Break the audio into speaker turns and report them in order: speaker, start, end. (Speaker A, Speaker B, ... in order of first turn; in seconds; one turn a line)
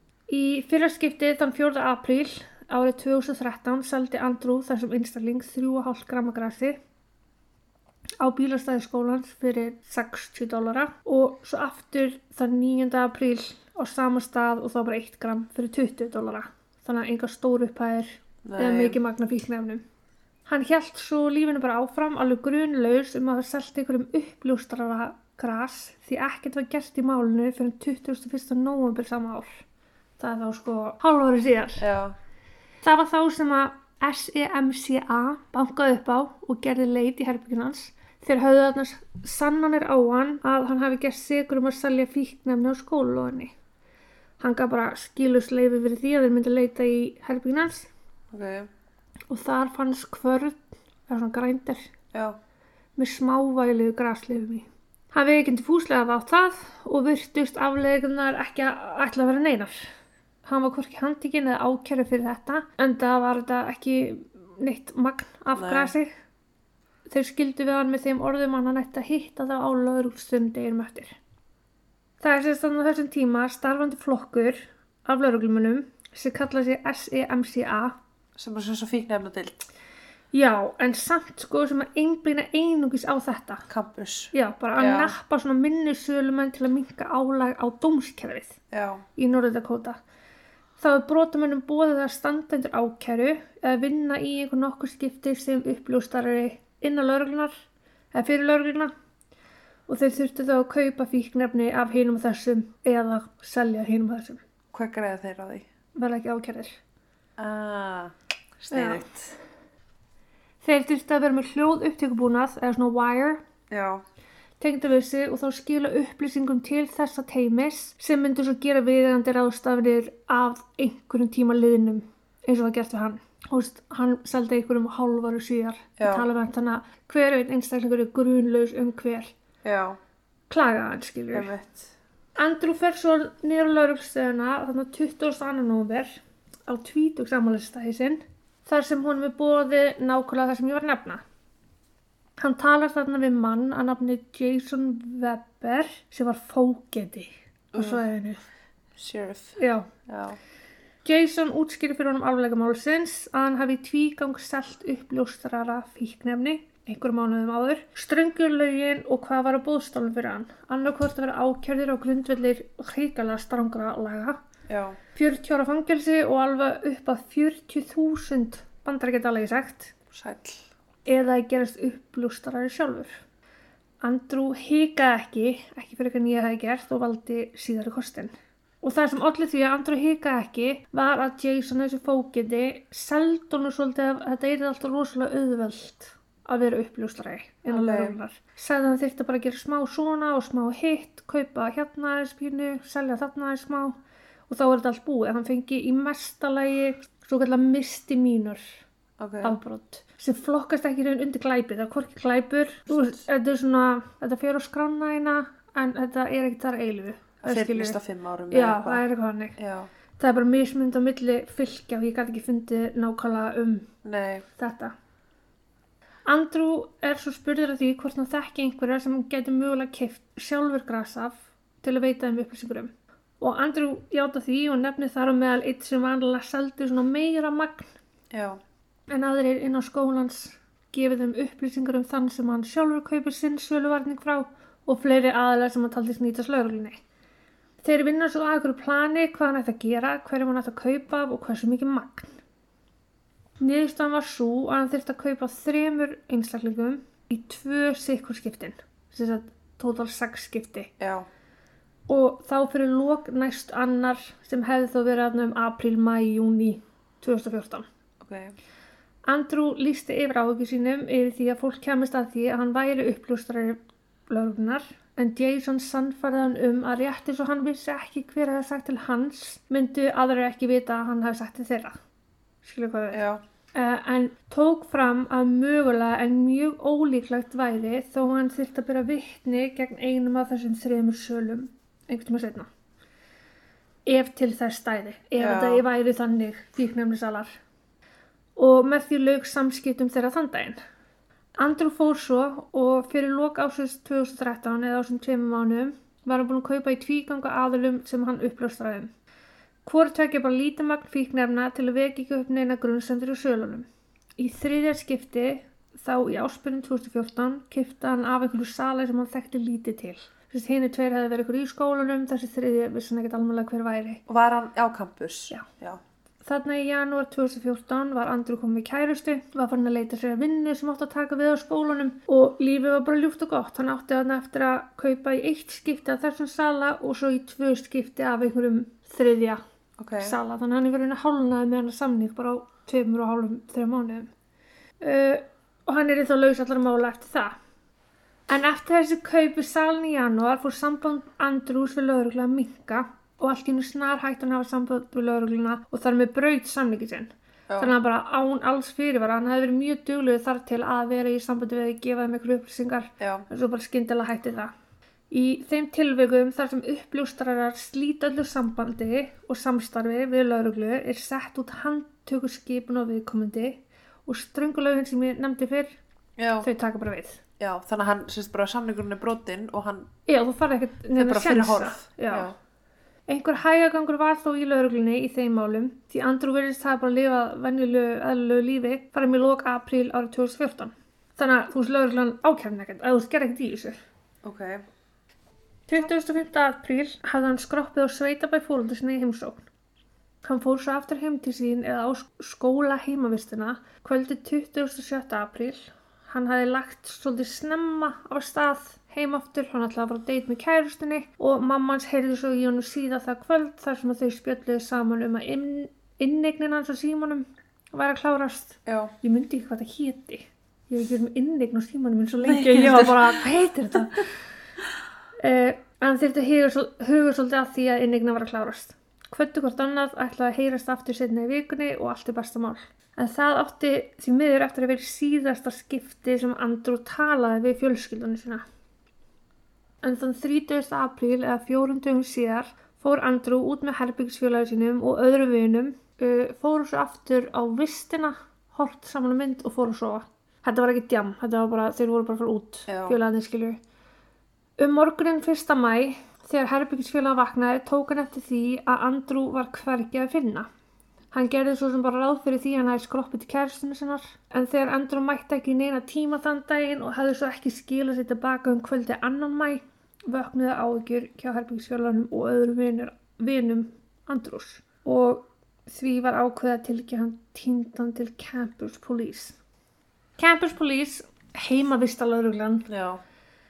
Speaker A: 0.3-6.8
Speaker A: 8.2-19.8
Speaker B: 18.4-19.0
Speaker A: 20.5-29.6
Speaker A: 30.2-31.9
Speaker B: 31.8-32.2
Speaker A: 32.8-43.5
Speaker A: 44.4-47.9
Speaker B: 48.3-48.7
Speaker A: 49.3-51.9
Speaker A: 53.0-59.9
Speaker A: 60.4-66.1
Speaker B: 65.5-65.9
Speaker A: 67.1-71.2
Speaker A: 72.2-78.0
Speaker B: 78.4-79.7
Speaker A: 80.3-83.7
Speaker B: 83.7-85.2
Speaker A: 84.3-88.6
Speaker B: 88.7-89.0
Speaker A: 89.2-90.0
Speaker A: 90.8-97.5
Speaker A: 98.1-98.9
Speaker A: 99.9-104.4
Speaker B: 104.7-105.7
Speaker A: 106.0-106.8
Speaker B: 107.4-109.4
Speaker A: 108.7-109.0
Speaker A: 110.6-113.4
Speaker B: 113.7-114.0
Speaker A: 114.6-129.3
Speaker B: 126.0-126.2
Speaker B: 129.6-130.0
Speaker A: 130.5-131.5
Speaker B: 131.3-131.9
Speaker A: 132.4-141.2
Speaker A: 142.4-148.4
Speaker B: 147.7-148.0
Speaker B: 149.0-150.4
Speaker A: 149.6-149.9
Speaker A: 151.1-164.4
Speaker B: 164.7-165.0
Speaker A: 165.2-169.9
Speaker B: 170.1-170.7
Speaker A: 171.1-173.2
Speaker A: 174.0-194.0
Speaker B: 187.7-188.2
Speaker A: 194.5-198.6
Speaker B: 199.2-199.6
Speaker A: 199.4-208.0
Speaker B: 207.4-209.0
Speaker A: 208.5-209.6
Speaker B: 209.6-209.9
Speaker A: 210.2-213.9
Speaker B: 214.0-214.4
Speaker A: 214.6-214.9
Speaker A: 216.3-227.9
Speaker B: 228.3-228.6
Speaker A: 229.1-237.0
Speaker A: 237.8-242.3
Speaker A: 243.6-250.9
Speaker B: 251.0-251.3
Speaker A: 252.1-257.9
Speaker B: 258.2-258.6
Speaker A: 259.3-272.0
Speaker A: 272.6-273.2
Speaker B: 273.1-273.4
Speaker A: 273.7-282.7
Speaker A: 284.1-287.6
Speaker B: 285.4-285.9
Speaker A: 288.6-290.8
Speaker A: 291.6-299.1
Speaker A: 299.9-314.2
Speaker B: 314.3-316.0
Speaker A: 316.4-329.6
Speaker B: 330.0-330.4
Speaker A: 330.2-334.3
Speaker A: 335.0-337.6
Speaker A: 338.5-354.7
Speaker B: 347.7-347.9
Speaker B: 353.2-353.5
Speaker A: 355.3-366.0
Speaker B: 366.4-366.7
Speaker A: 366.6-367.4
Speaker B: 367.6-370.1
Speaker A: 370.3-372.5
Speaker B: 371.1-372.6
Speaker A: 373.3-384.0
Speaker B: 384.4-384.8
Speaker A: 385.9-389.6
Speaker A: 390.4-414.4
Speaker B: 408.9-409.1
Speaker B: 412.4-413.4
Speaker A: 415.4-428.6
Speaker A: 430.0-443.8
Speaker B: 442.9-443.2
Speaker A: 444.8-450.7
Speaker A: 451.3-469.6
Speaker A: 470.4-472.9
Speaker B: 472.9-473.2